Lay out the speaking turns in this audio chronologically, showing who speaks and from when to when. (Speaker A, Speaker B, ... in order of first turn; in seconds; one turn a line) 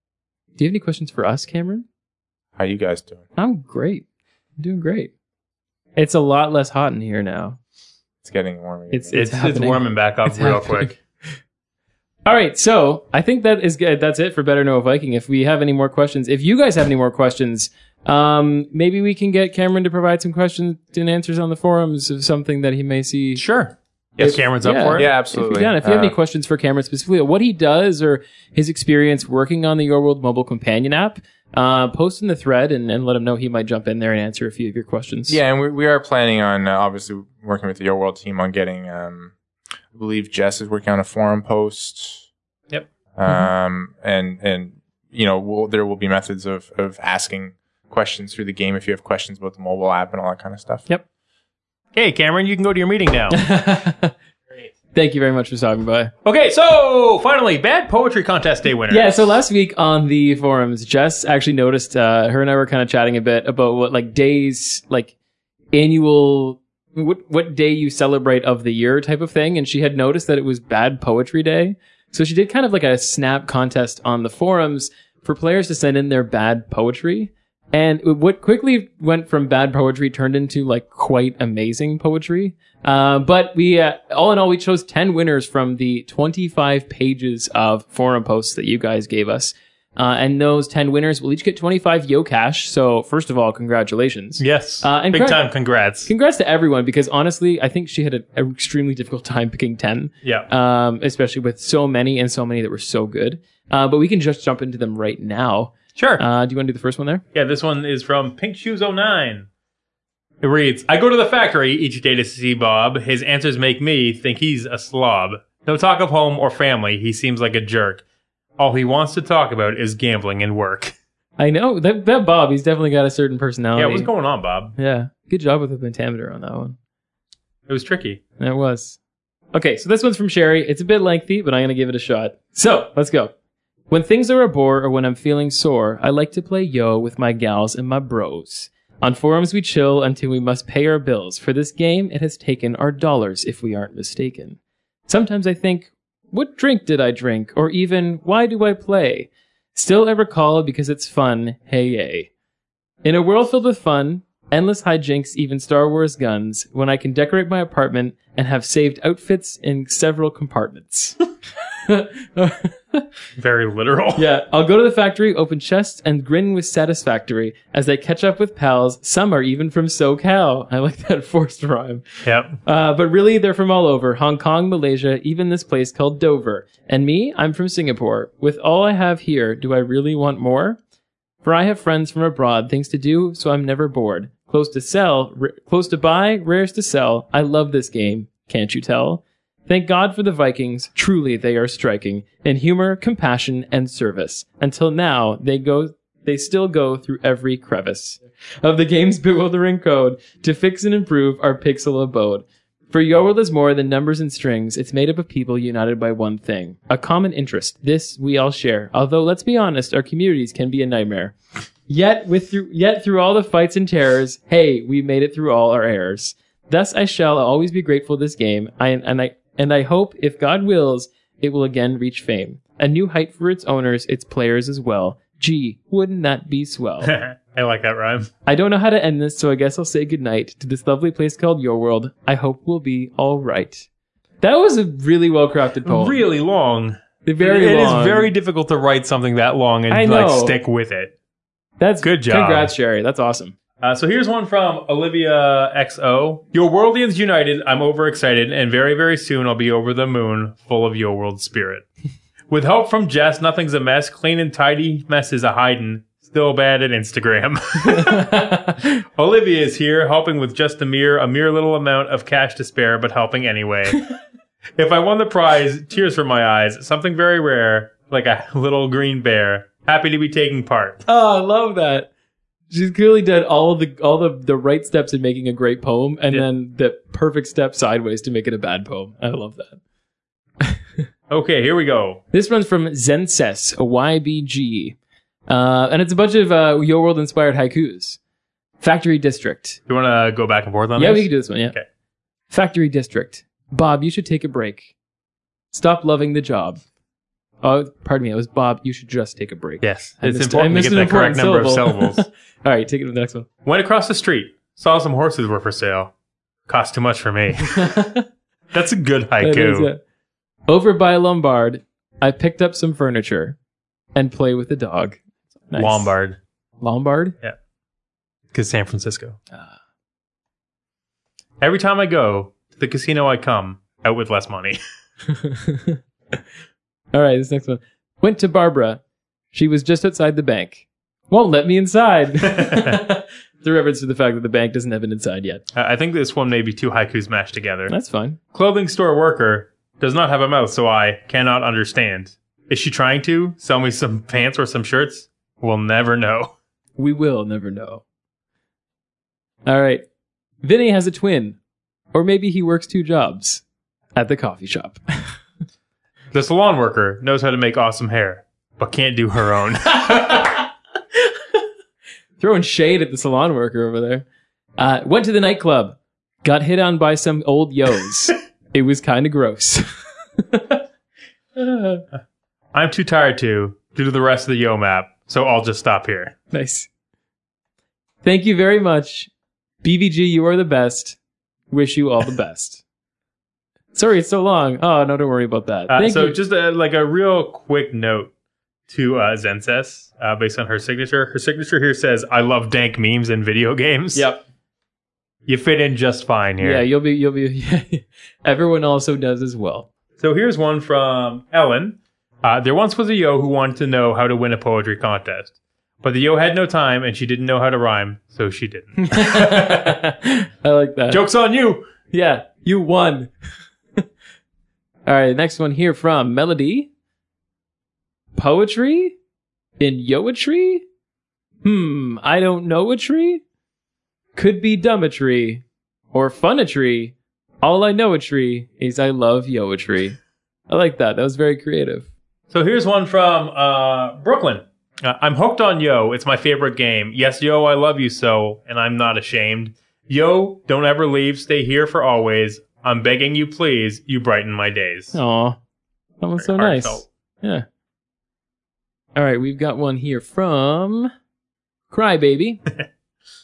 Speaker A: 0.6-1.8
Speaker B: 2.6-3.2
Speaker A: 3.4-4.0
Speaker A: 4.6-5.1
Speaker A: 6.0-7.6
Speaker B: 8.2-9.2
Speaker A: 8.9-10.9
Speaker C: 9.1-11.0
Speaker A: 12.2-23.4
Speaker C: 23.4-25.1
Speaker A: 24.2-35.4
Speaker B: 24.9-26.1
Speaker B: 35.3-39.3
Speaker B: 39.9-42.3
Speaker B: 43.1-50.9
Speaker C: 51.9-53.4
Speaker A: 53.3-54.1
Speaker A: 54.9-56.1
Speaker C: 56.2-59.4
Speaker A: 58.9-65.1
Speaker A: 65.7-95.5
Speaker C: 94.4-96.1
Speaker A: 96.0-107.2
Speaker C: 100.2-100.5
Speaker C: 106.0-106.2
Speaker C: 107.3-109.5
Speaker C: 110.4-118.0
Speaker C: 118.6-120.9
Speaker A: 121.4-124.1
Speaker C: 123.8-124.7
Speaker A: 124.8-126.8
Speaker C: 127.7-128.2
Speaker A: 128.4-129.0
Speaker A: 129.5-133.3
Speaker A: 133.9-152.3
Speaker A: 153.0-161.2
Speaker A: 161.9-163.1
Speaker C: 163.4-164.2
Speaker A: 164.2-180.8
Speaker C: 172.2-172.6
Speaker A: 181.4-211.3
Speaker A: 211.9-227.1
Speaker C: 227.0-228.3
Speaker A: 228.4-233.8
Speaker A: 234.4-236.2
Speaker C: 235.8-241.1
Speaker A: 237.2-238.3
Speaker A: 239.9-240.6
Speaker A: 241.8-243.5
Speaker C: 242.0-242.7
Speaker C: 243.8-251.8
Speaker C: 252.5-264.1
Speaker A: 257.8-258.8
Speaker C: 264.8-271.0
Speaker A: 271.1-272.1
Speaker A: 272.7-279.8
Speaker C: 281.3-282.2
Speaker A: 282.3-285.0
Speaker A: 285.5-288.2
Speaker A: 288.8-289.8
Speaker C: 289.9-291.8
Speaker A: 291.0-291.7
Speaker A: 292.5-294.9
Speaker A: 295.7-296.8
Speaker A: 297.6-303.5
Speaker C: 299.8-302.2
Speaker C: 303.6-306.1
Speaker C: 306.7-308.1
Speaker A: 307.7-308.2
Speaker C: 308.7-309.9
Speaker A: 309.4-310.0
Speaker A: 310.7-313.6
Speaker A: 314.1-315.2
Speaker A: 315.7-316.1
Speaker C: 315.7-316.4
Speaker A: 316.8-317.4
Speaker C: 318.5-319.4
Speaker C: 321.6-324.8
Speaker A: 325.3-326.4
Speaker A: 327.1-329.0
Speaker A: 329.5-335.6
Speaker C: 332.4-333.0
Speaker C: 335.7-337.9
Speaker A: 337.9-338.4
Speaker C: 338.5-346.5
Speaker A: 347.0-348.0
Speaker A: 349.6-350.0
Speaker A: 350.6-351.6
Speaker A: 352.1-353.6
Speaker A: 354.1-355.4
Speaker C: 356.3-360.5
Speaker A: 359.9-360.6
Speaker A: 362.4-364.2
Speaker A: 364.8-369.9
Speaker A: 370.4-370.8
Speaker A: 371.6-372.0
Speaker C: 372.7-376.3
Speaker A: 376.5-376.9
Speaker A: 378.2-379.3
Speaker A: 379.8-381.2
Speaker A: 381.7-382.8
Speaker A: 383.9-386.4
Speaker C: 385.9-388.3
Speaker C: 388.9-394.2
Speaker A: 394.1-394.4
Speaker C: 395.4-396.8
Speaker A: 396.6-399.9
Speaker C: 400.2-410.0
Speaker A: 409.0-411.2
Speaker C: 411.1-411.9
Speaker A: 412.1-413.3
Speaker A: 415.1-416.9
Speaker A: 418.3-419.1
Speaker A: 419.8-420.8
Speaker A: 421.6-423.4
Speaker A: 424.3-430.2
Speaker A: 430.7-432.1
Speaker C: 432.5-445.2
Speaker A: 445.1-445.6
Speaker A: 446.2-447.6
Speaker C: 446.4-447.1
Speaker A: 449.1-451.1
Speaker A: 451.9-452.6